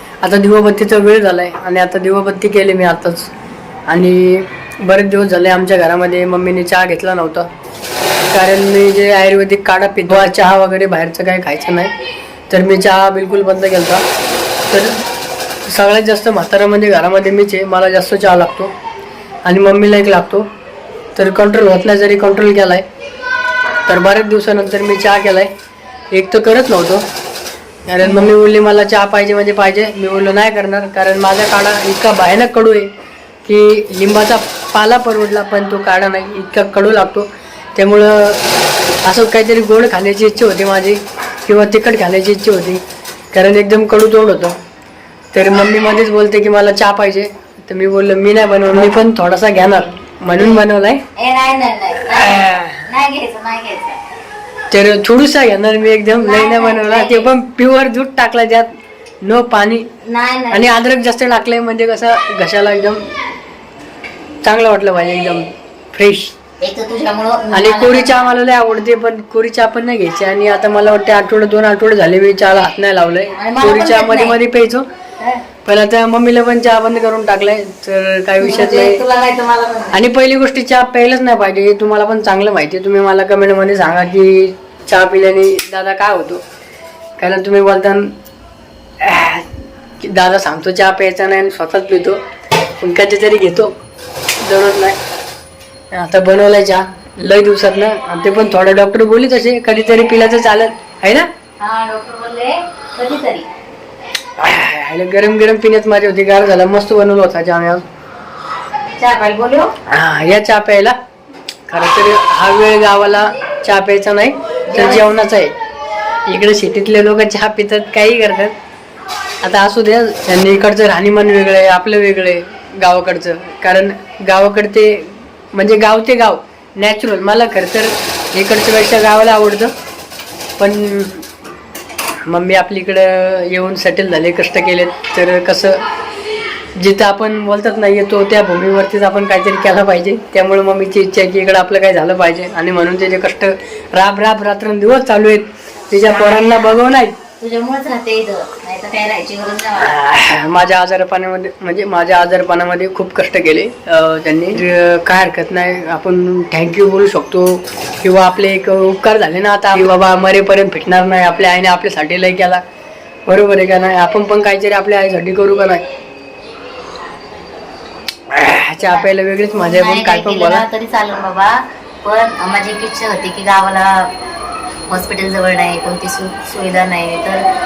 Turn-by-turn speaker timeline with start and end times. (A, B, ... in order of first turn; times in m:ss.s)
0:00.2-0:03.3 A
0:03.9-0:07.5 A
0:08.3-0:11.9 A
0:12.5-0:14.0 A
0:14.7-0:15.0 A
0:15.6-0:18.7 A
0:19.4-0:20.4 A
0:21.2-0:22.8 A
0:23.9-0:25.5 A
0:26.1-0:27.0 A
0:27.9-0:32.9 A
0:28.0-0:28.3 B
0:33.4-0:38.4 A
0:39.0-0:42.8 A
0:43.3-0:44.5 A
0:45.3-0:51.0 A
0:50.4-0:50.6 B
0:51.2-0:54.0 B
0:52.2-0:52.7 A
0:54.7-0:58.7 A
0:56.1-0:57.3 B
0:59.2-0:59.9 A
1:00.0-1:00.7 B
1:00.5-1:03.1 A
1:04.4-1:06.3 A
1:06.6-1:08.3 B
1:07.5-1:14.8 A
1:13.3-1:14.4 B
1:15.6-1:19.0 A
1:18.4-1:20.0 B
1:19.9-1:26.4 A
1:27.2-1:28.1 A
1:29.0-1:29.5 A
1:30.0-1:32.2 A
1:32.8-1:33.7 A
1:34.4-1:35.0 A
1:35.9-1:41.3 A
1:41.6-1:43.5 B
1:44.4-1:47.8 A
1:49.0-1:49.7 B
1:49.9-1:51.0 A
1:51.7-1:55.5 A
1:54.7-1:55.0 B
1:56.3-1:58.5 A
1:59.4-2:09.7 A
2:10.6-2:11.2 A
2:12.2-2:15.8 A
2:16.8-2:27.2 A
2:26.0-2:26.6 B
2:27.4-2:29.9 B
2:29.8-2:42.6 A
2:43.3-2:45.8 A
2:48.3-2:50.6 A
2:48.8-2:54.1 B
2:54.9-2:57.4 B